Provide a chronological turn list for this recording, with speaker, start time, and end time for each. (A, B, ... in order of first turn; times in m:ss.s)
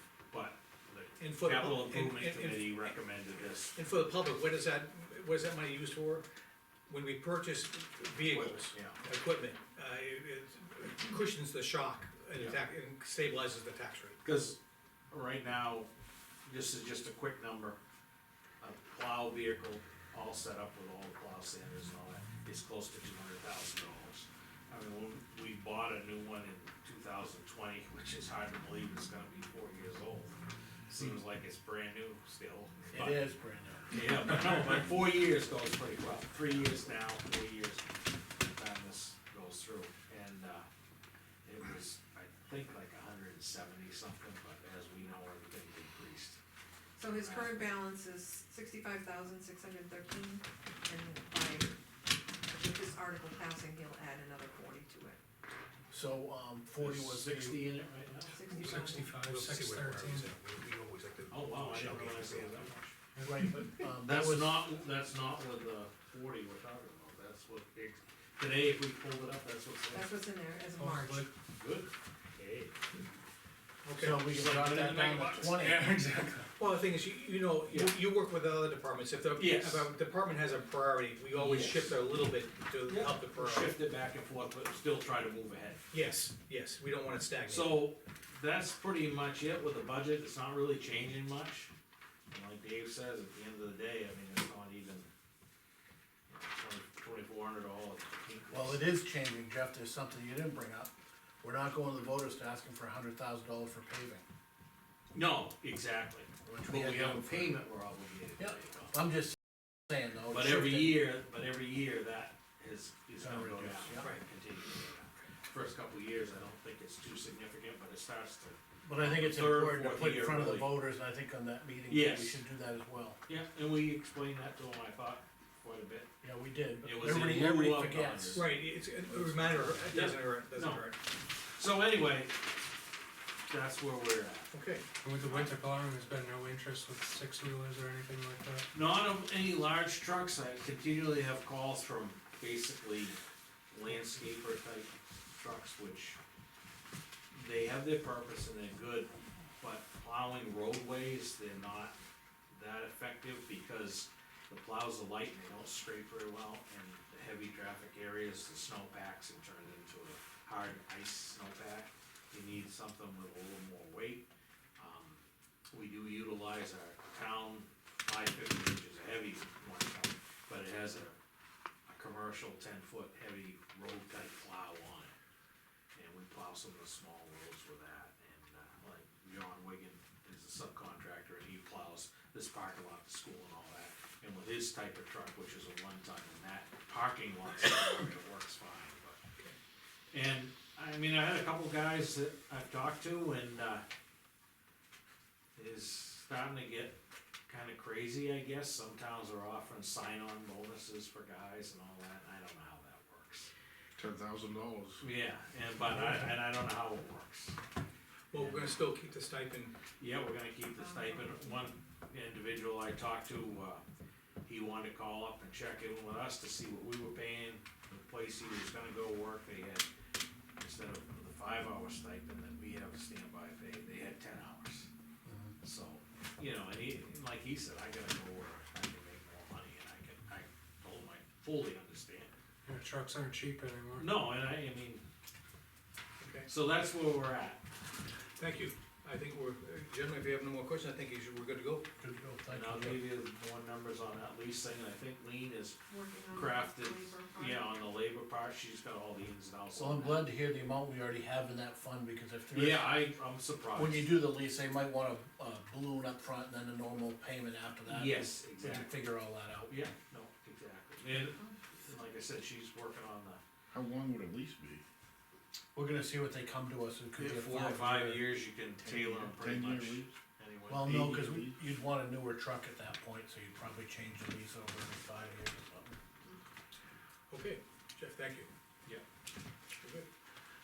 0:00.3-0:03.8 A
0:01.2-0:02.9 B
0:03.7-0:06.2 B
0:06.9-0:14.2 B
0:08.2-0:09.0 A
0:12.3-0:12.6 A
0:14.2-0:14.6 A
0:15.1-0:15.9 A
0:16.4-0:17.8 A
0:18.6-0:30.4 A
0:30.9-0:33.2 A
0:32.9-0:34.0 C
0:33.9-0:37.8 A
0:38.4-0:40.6 A
0:41.4-0:46.4 A
0:47.0-0:51.8 D
0:47.0-0:47.7 A
0:52.4-0:55.2 D
0:55.9-0:57.7 C
0:56.8-0:58.4 A
0:58.3-0:59.1 D
0:58.5-1:00.3 E
0:58.5-1:02.7 B
1:01.3-1:02.9 A
1:03.2-1:04.7 C
1:04.0-1:10.1 A
1:09.9-1:11.3 D
1:10.8-1:11.3 E
1:11.6-1:12.7 A
1:13.8-1:14.2 B
1:14.0-1:16.1 C
1:14.1-1:15.9 A
1:15.6-1:16.5 E
1:16.6-1:23.7 B
1:17.7-1:18.0 A
1:19.4-1:19.8 A
1:21.3-1:21.9 A
1:22.9-1:25.8 A
1:25.9-1:27.8 B
1:27.4-1:31.7 A
1:32.3-1:35.1 A
1:36.3-1:38.8 A
1:38.5-1:40.9 C
1:41.4-1:44.2 C
1:45.1-1:48.9 A
1:46.4-1:47.6 C
1:48.4-1:51.0 C
1:50.3-2:00.8 A
1:53.2-1:54.1 C
1:58.8-2:03.2 C
2:01.9-2:02.4 A
2:03.2-2:06.1 A
2:06.2-2:08.5 C
2:06.8-2:08.4 A
2:08.3-2:11.0 B
2:09.9-2:10.9 A
2:11.5-2:12.4 A
2:13.5-2:14.5 A
2:14.5-2:14.8 B
2:15.0-2:18.7 E
2:15.2-2:15.5 A
2:18.7-2:23.2 A
2:23.7-2:26.2 A
2:27.3-2:32.0 A
2:32.5-2:51.2 A
2:51.9-2:55.2 A
2:55.9-3:09.2 A
3:10.1-3:13.8 A
3:15.6-3:23.5 A
3:24.0-3:25.0 F
3:25.0-3:27.6 A
3:25.8-3:26.3 B
3:28.3-3:29.7 B
3:28.3-3:28.7 A
3:30.0-3:33.8 A
3:30.8-3:31.5 D
3:34.4-3:39.9 A
3:40.6-3:44.9 A
3:45.2-3:45.5 C
3:45.6-3:52.3 A
3:52.6-3:54.1 E
3:54.0-3:55.0 A
3:56.2-3:56.5 B
3:56.4-3:57.6 A
3:58.4-4:01.8 B
4:02.0-4:03.1 C
4:02.5-4:05.8 A
4:05.9-4:07.8 D
4:06.3-4:10.3 A
4:09.7-4:13.0 C
4:12.5-4:14.1 A
4:13.7-4:19.8 C
4:17.8-4:19.0 A
4:19.7-4:23.4 A
4:23.7-4:24.8 F
4:25.7-4:28.3 C
4:27.2-4:31.3 A
4:28.8-4:30.1 F
4:30.7-4:36.0 C
4:30.8-4:31.5 F
4:37.3-4:38.5 B
4:39.8-4:40.0 B